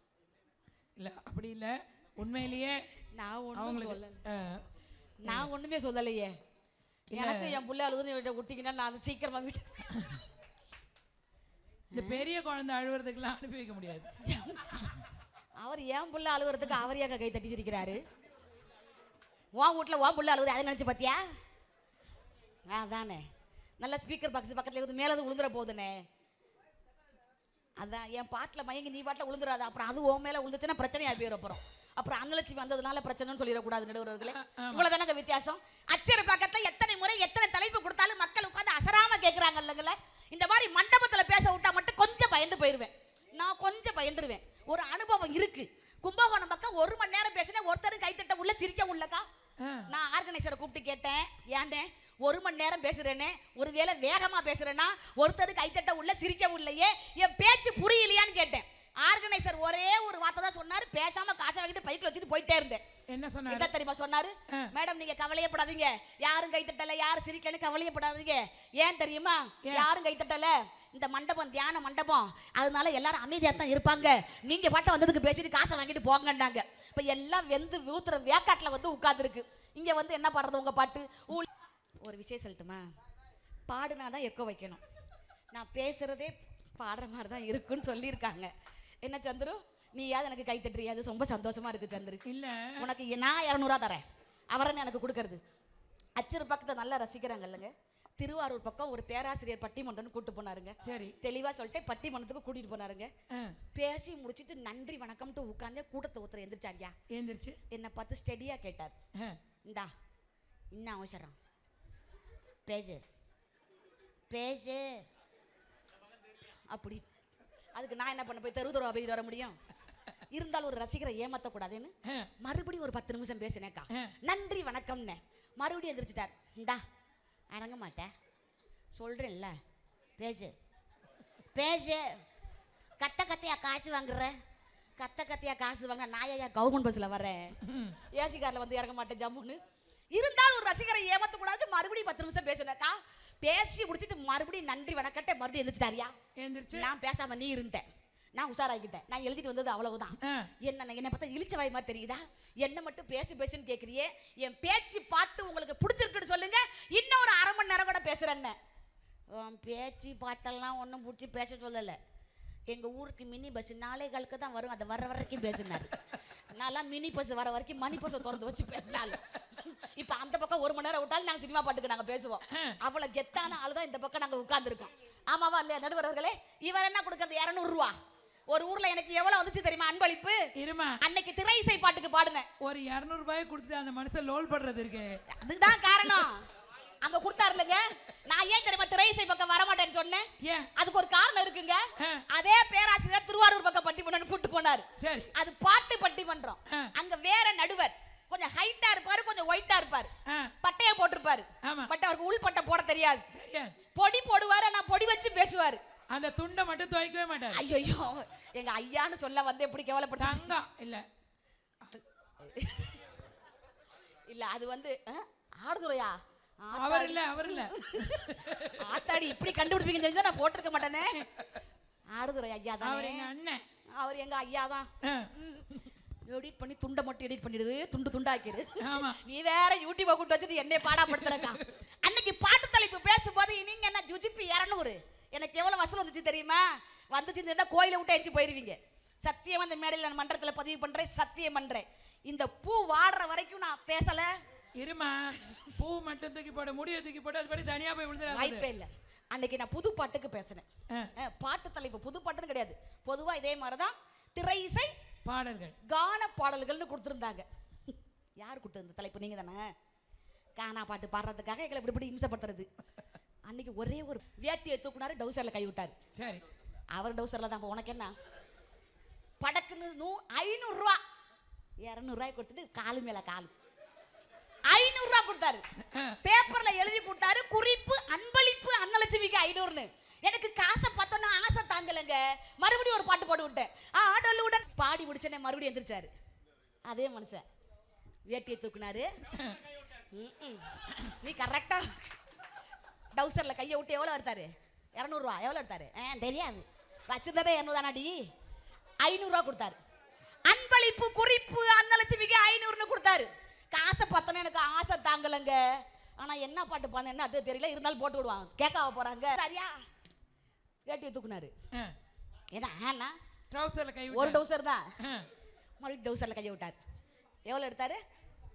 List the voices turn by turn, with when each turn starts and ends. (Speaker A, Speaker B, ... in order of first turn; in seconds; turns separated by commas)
Speaker A: 1.0-2.8, Speaker B: 3.1-4.2, Speaker A: 3.5-4.6, Speaker B: 5.2-6.3, Speaker A: 7.1-7.6, Speaker B: 7.1-9.9, Speaker B: 11.9-12.3, Speaker A: 11.9-14.1, Speaker B: 14.2-14.9, Speaker B: 15.6-18.0, Speaker B: 19.6-21.2, Speaker B: 22.7-23.2, Speaker B: 23.8-26.0, Speaker B: 27.8-49.2, Speaker A: 34.3-34.9, Speaker A: 49.6-49.9, Speaker B: 49.9-62.8, Speaker A: 63.1-63.7, Speaker B: 63.5-81.5, Speaker B: 82.0-82.8, Speaker B: 83.7-84.8, Speaker B: 85.5-88.5, Speaker B: 89.0-92.2, Speaker A: 92.2-92.8, Speaker B: 92.8-95.4, Speaker B: 96.2-103.1, Speaker A: 100.8-101.2, Speaker B: 103.8-107.0, Speaker A: 107.1-107.6, Speaker B: 107.7-109.0, Speaker B: 110.7-111.4, Speaker B: 112.7-113.0, Speaker B: 114.3-115.0, Speaker B: 116.7-117.0, Speaker B: 117.8-119.6, Speaker B: 120.3-126.8, Speaker B: 127.5-128.1, Speaker B: 128.9-129.5, Speaker B: 130.2-130.5, Speaker B: 131.5-132.1, Speaker B: 133.0-134.3, Speaker B: 135.0-137.6, Speaker A: 137.6-138.0, Speaker B: 138.1-139.6, Speaker B: 140.1-146.1, Speaker A: 146.4-146.9, Speaker B: 146.7-158.6, Speaker A: 150.2-150.5, Speaker B: 159.3-162.0, Speaker B: 162.7-165.9, Speaker B: 166.5-177.9, Speaker A: 172.5-172.8, Speaker B: 178.5-180.4, Speaker A: 180.6-181.0, Speaker B: 181.0-182.5, Speaker A: 182.6-185.2, Speaker B: 185.3-186.4, Speaker B: 187.0-200.1, Speaker A: 190.4-190.7, Speaker A: 192.0-192.2, Speaker A: 195.0-195.3, Speaker B: 200.6-203.2, Speaker A: 201.6-201.9, Speaker A: 203.3-203.8, Speaker B: 203.9-205.8, Speaker A: 206.1-207.6, Speaker B: 207.5-210.5, Speaker A: 210.2-211.0, Speaker B: 212.4-213.0, Speaker B: 214.3-221.3, Speaker A: 216.7-219.2, Speaker B: 222.1-223.3, Speaker A: 222.8-223.6, Speaker B: 223.9-225.7, Speaker A: 225.0-225.9, Speaker B: 226.3-244.3, Speaker A: 228.8-229.2, Speaker A: 231.0-231.6, Speaker A: 244.8-248.7, Speaker B: 248.3-254.9, Speaker A: 255.2-255.8, Speaker B: 255.8-257.4, Speaker B: 258.4-259.6, Speaker B: 260.6-262.7, Speaker B: 263.5-265.9, Speaker A: 266.2-266.4, Speaker B: 266.9-268.1, Speaker B: 269.4-271.0, Speaker B: 271.8-273.5, Speaker B: 274.7-275.6, Speaker A: 275.9-276.2, Speaker B: 276.2-286.1, Speaker B: 286.9-287.4, Speaker B: 288.3-289.1, Speaker B: 290.1-291.9, Speaker B: 293.1-298.2, Speaker B: 299.0-299.8, Speaker B: 300.4-305.6, Speaker B: 306.2-309.8, Speaker B: 310.9-311.5, Speaker B: 312.5-313.1, Speaker A: 313.5-314.4, Speaker B: 314.1-314.9, Speaker A: 315.0-315.3, Speaker B: 315.8-316.8, Speaker B: 317.5-318.0